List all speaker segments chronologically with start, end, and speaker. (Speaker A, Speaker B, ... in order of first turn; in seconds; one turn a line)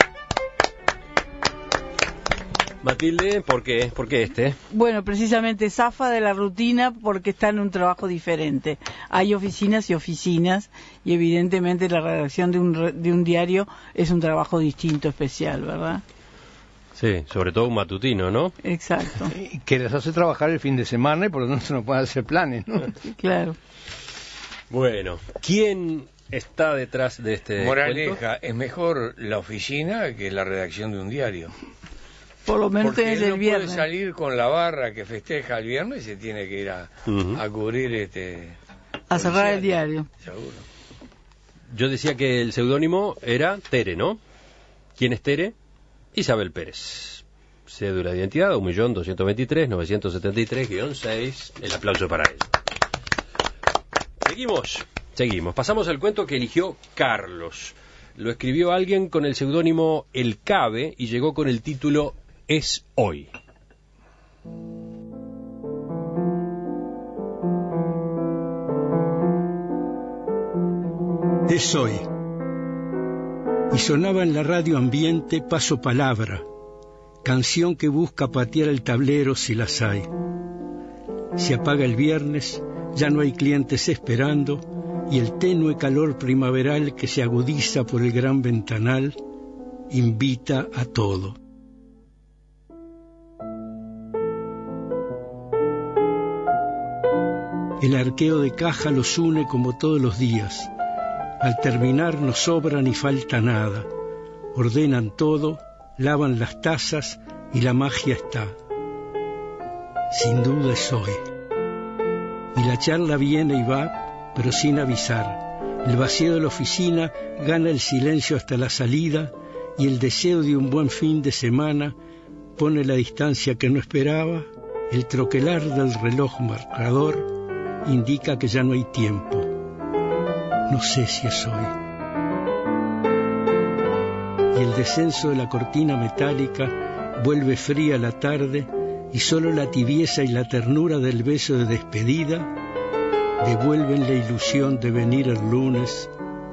Speaker A: 2.8-4.6
Speaker B: 4.7-16.0
Speaker A: 16.9-18.6
Speaker B: 18.6-19.3
Speaker C: 19.3-22.9
Speaker B: 23.2-23.6
Speaker A: 24.7-28.2
Speaker D: 27.6-31.5
Speaker B: 32.5-33.9
Speaker D: 32.8-38.6
Speaker A: 37.0-37.4
Speaker B: 39.1-40.1
Speaker D: 39.1-40.6
Speaker A: 41.7-44.2
Speaker A: 45.0-45.5
Speaker A: 46.1-52.5
Speaker A: 54.2-63.3
Speaker E: 71.5-72.1
Speaker E: 73.7-76.4
Speaker E: 77.2-80.1
Speaker E: 81.3-89.2
Speaker E: 89.9-91.4
Speaker E: 97.8-100.7
Speaker E: 101.4-103.9
Speaker E: 104.5-108.5
Speaker E: 110.1-111.3
Speaker E: 112.5-122.0
Speaker E: 122.6-127.3
Speaker E: 127.8-129.5
Speaker E: 130.7-131.7
Speaker E: 134.5-142.5
Speaker E: 143.4-146.1